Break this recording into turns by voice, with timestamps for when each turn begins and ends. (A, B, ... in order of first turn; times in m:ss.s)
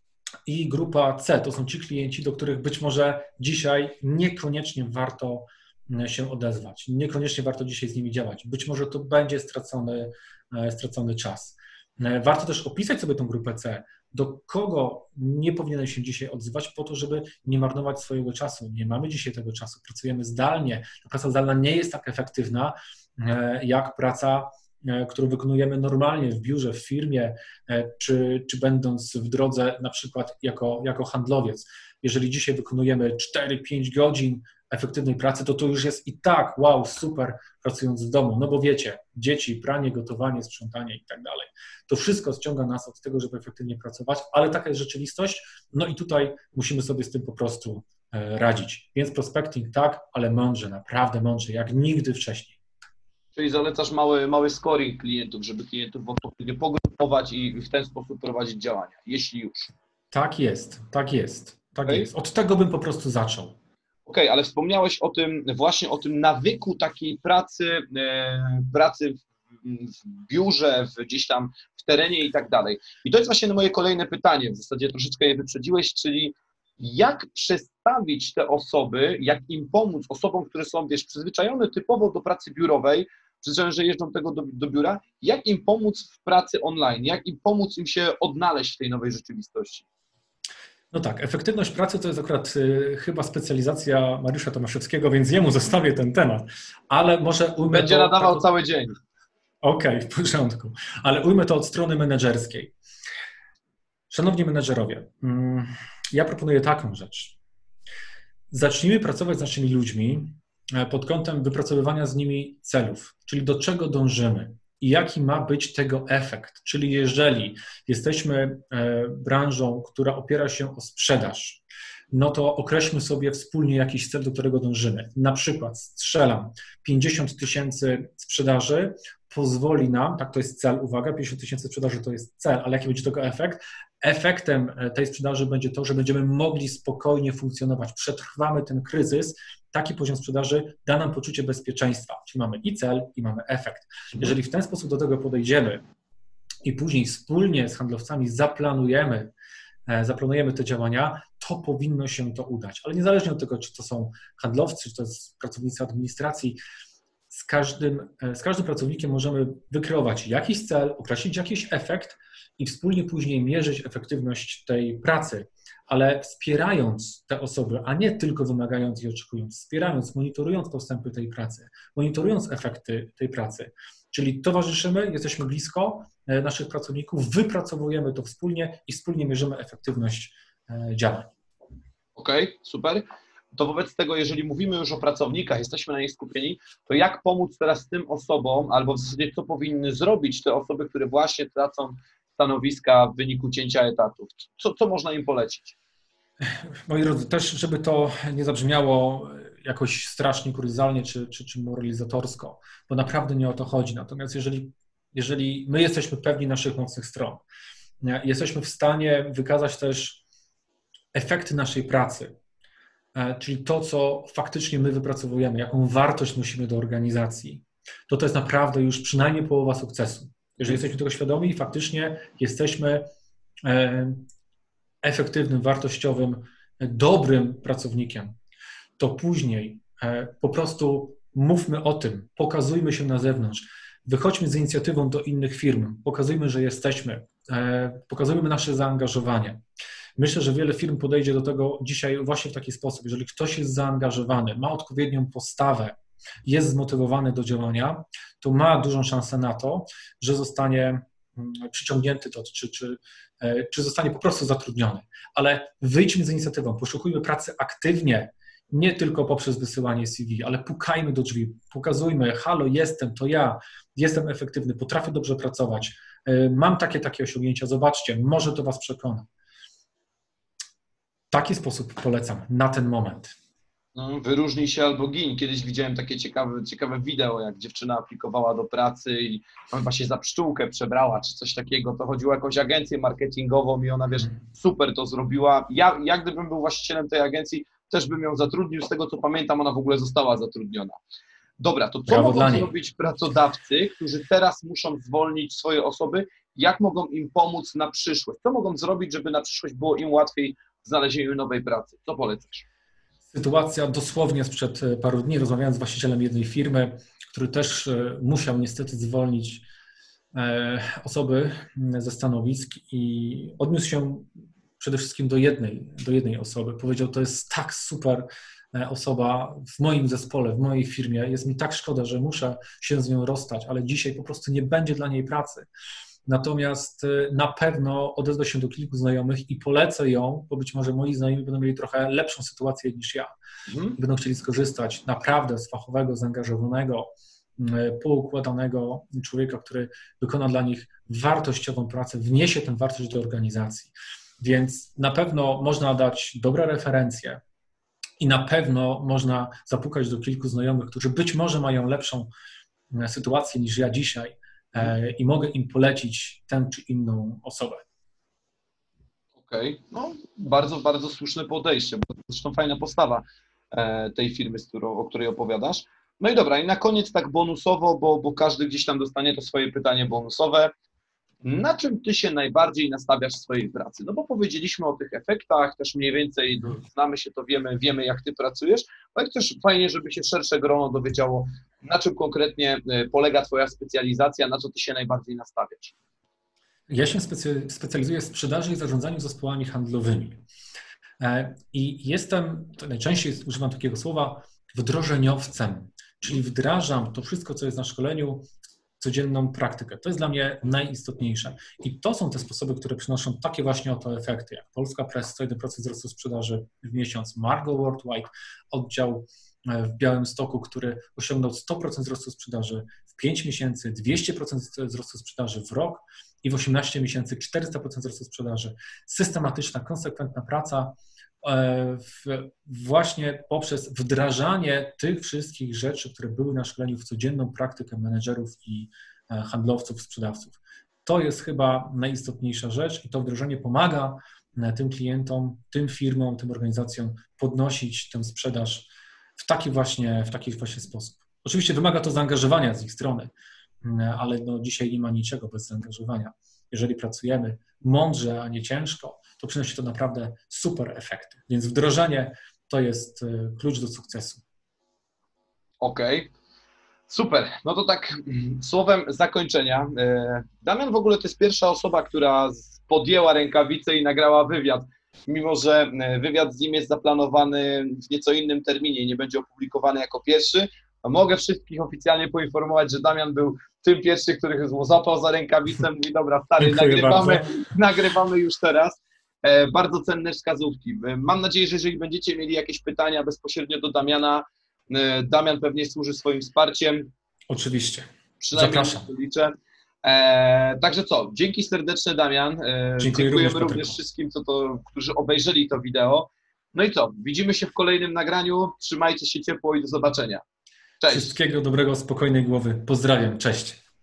0:00.5-0:52.6 A
0:53.4-0:59.7 B
1:00.1-1:03.6 A
1:04.1-1:29.9 B
1:30.9-1:38.5 A
1:37.7-1:39.0 B
1:39.6-1:42.7 A
1:44.1-1:47.4 A
1:48.5-2:25.8 A
2:26.6-2:29.3 A
2:29.9-2:36.6 A
2:37.3-3:01.3 A
3:02.2-3:15.8 B
3:16.5-3:27.4 A
3:28.0-3:30.2 A
3:31.1-3:32.3 A
3:33.2-3:43.0 A
3:43.6-3:44.2 A
3:45.0-3:48.3 A
3:49.0-3:59.6 A
4:00.2-4:29.3 A
4:31.3-4:33.4 A
4:34.0-4:51.0 B
4:51.6-5:02.6 B
4:52.1-4:52.7 A
5:03.3-5:09.6 A
5:10.3-5:25.7 A
5:26.3-5:33.3 A
5:33.7-5:34.0 B
5:34.0-5:47.4 A
5:48.2-5:52.3 A
5:52.9-5:57.8 A
5:59.4-6:10.7 B
6:11.4-6:25.9 B
6:26.9-6:30.4 A
6:31.2-6:38.5 A
6:39.0-7:34.4 A
7:35.8-7:36.3 B
7:37.1-8:07.1 B
7:56.6-7:57.5 A
8:07.5-8:09.1 A
8:08.4-8:20.4 B
8:13.0-8:14.0 A
8:21.0-8:21.4 B
8:21.1-8:23.8 A